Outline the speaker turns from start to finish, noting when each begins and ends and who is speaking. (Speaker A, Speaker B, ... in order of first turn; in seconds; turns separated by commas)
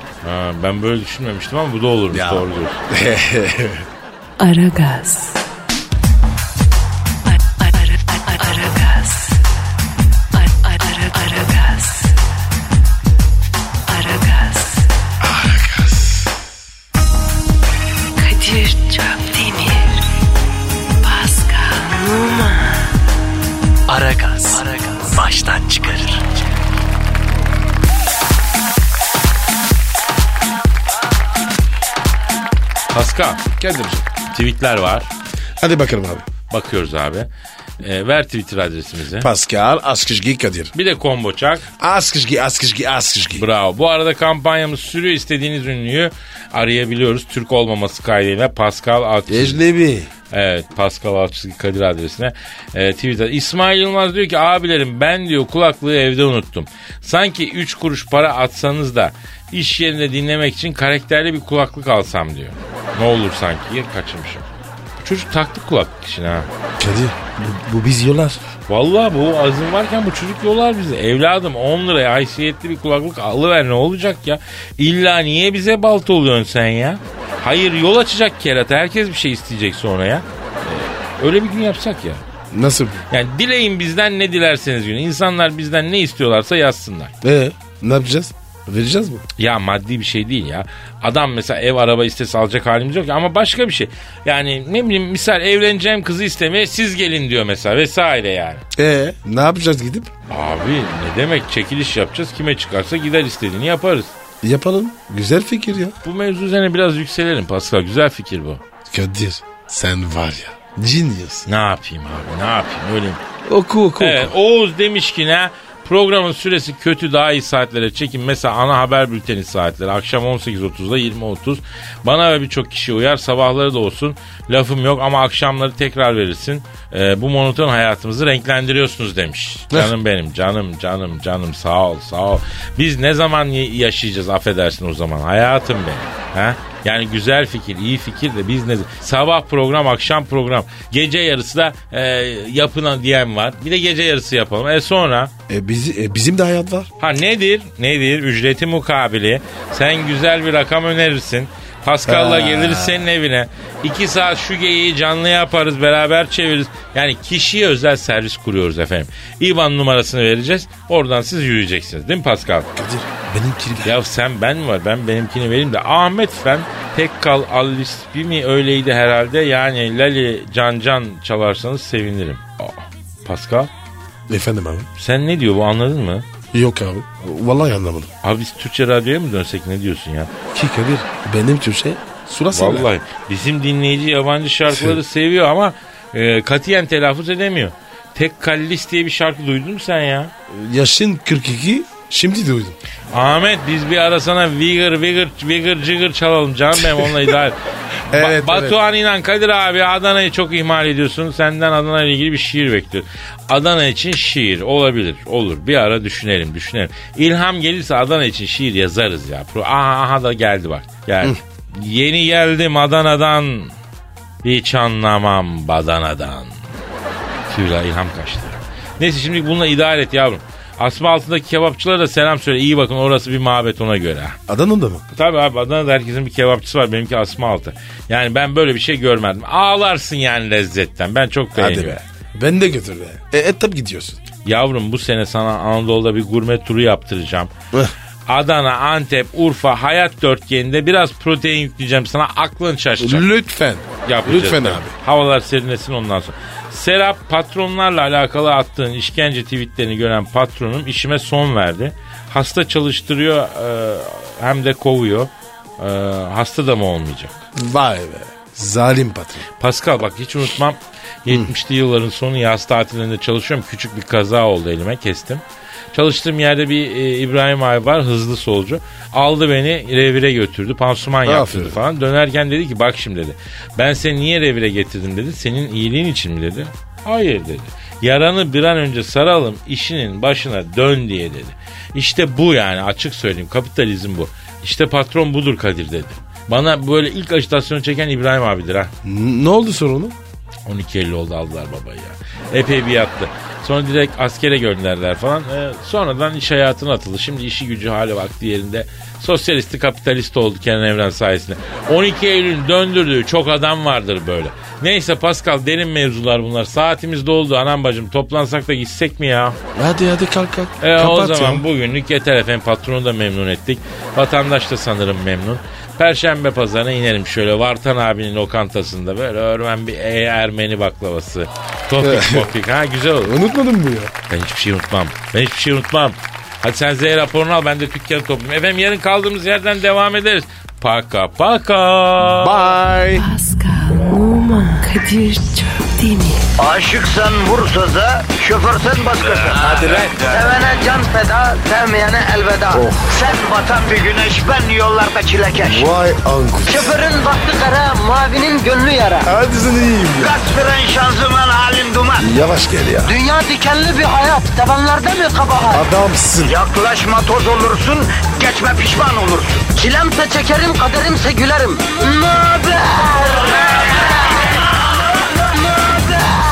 Speaker A: 0.2-2.8, Speaker B: 2.1-3.9, Speaker C: 4.4-5.5, Speaker C: 7.3-9.4, Speaker C: 10.3-12.2, Speaker C: 13.9-14.9, Speaker B: 15.2-16.2, Speaker C: 18.2-20.0, Speaker C: 21.0-22.9, Speaker D: 23.9-26.2, Speaker A: 32.9-33.4, Speaker B: 33.6-34.1, Speaker A: 34.3-35.1, Speaker B: 35.6-36.3, Speaker A: 36.5-37.3, Speaker A: 37.8-39.3, Speaker B: 39.2-40.7, Speaker A: 40.7-41.7, Speaker B: 41.8-43.5, Speaker A: 43.4-49.6, Speaker B: 49.3-50.1, Speaker A: 50.3-64.5, Speaker A: 65.0-66.5, Speaker B: 66.8-68.4, Speaker A: 68.7-82.2, Speaker B: 82.5-83.0, Speaker A: 83.1-87.1, Speaker B: 87.2-89.2, Speaker A: 89.4-98.7, Speaker B: 98.8-100.1, Speaker A: 100.3-104.1, Speaker B: 104.4-106.0, Speaker A: 106.0-108.6, Speaker B: 108.9-111.5, Speaker A: 111.5-113.2, Speaker B: 113.5-114.3, Speaker A: 114.0-145.3, Speaker B: 145.5-146.9, Speaker A: 147.0-162.7, Speaker B: 152.1-153.1, Speaker B: 162.8-164.0, Speaker A: 163.8-173.7, Speaker B: 174.3-174.9, Speaker A: 175.0-176.3, Speaker B: 176.5-178.1, Speaker A: 178.2-180.3, Speaker B: 180.5-182.9, Speaker A: 182.5-190.3, Speaker B: 184.7-185.0, Speaker B: 190.5-192.8, Speaker A: 193.1-213.7, Speaker B: 198.1-198.8, Speaker A: 214.4-216.5, Speaker A: 217.5-224.4, Speaker B: 224.5-225.0, Speaker A: 225.1-232.0, Speaker B: 231.6-234.2, Speaker A: 234.4-237.5, Speaker A: 238.3-243.3, Speaker B: 243.0-244.9, Speaker A: 244.1-257.4, Speaker B: 257.6-259.5, Speaker A: 259.6-288.9, Speaker B: 271.2-271.8, Speaker B: 289.0-290.1, Speaker A: 290.7-309.6, Speaker B: 309.7-311.6, Speaker A: 310.8-323.4, Speaker B: 322.0-322.5, Speaker B: 323.2-324.1, Speaker A: 324.3-332.7, Speaker B: 332.3-333.3, Speaker C: 333.1-336.5, Speaker E: 336.6-345.9, Speaker D: 339.9-340.2, Speaker B: 342.7-343.2, Speaker B: 345.6-347.0, Speaker E: 346.7-349.3, Speaker B: 349.2-350.4, Speaker E: 350.2-352.3, Speaker B: 352.2-353.2, Speaker E: 353.1-355.8, Speaker B: 355.7-356.6, Speaker E: 356.4-364.0, Speaker E: 365.7-366.4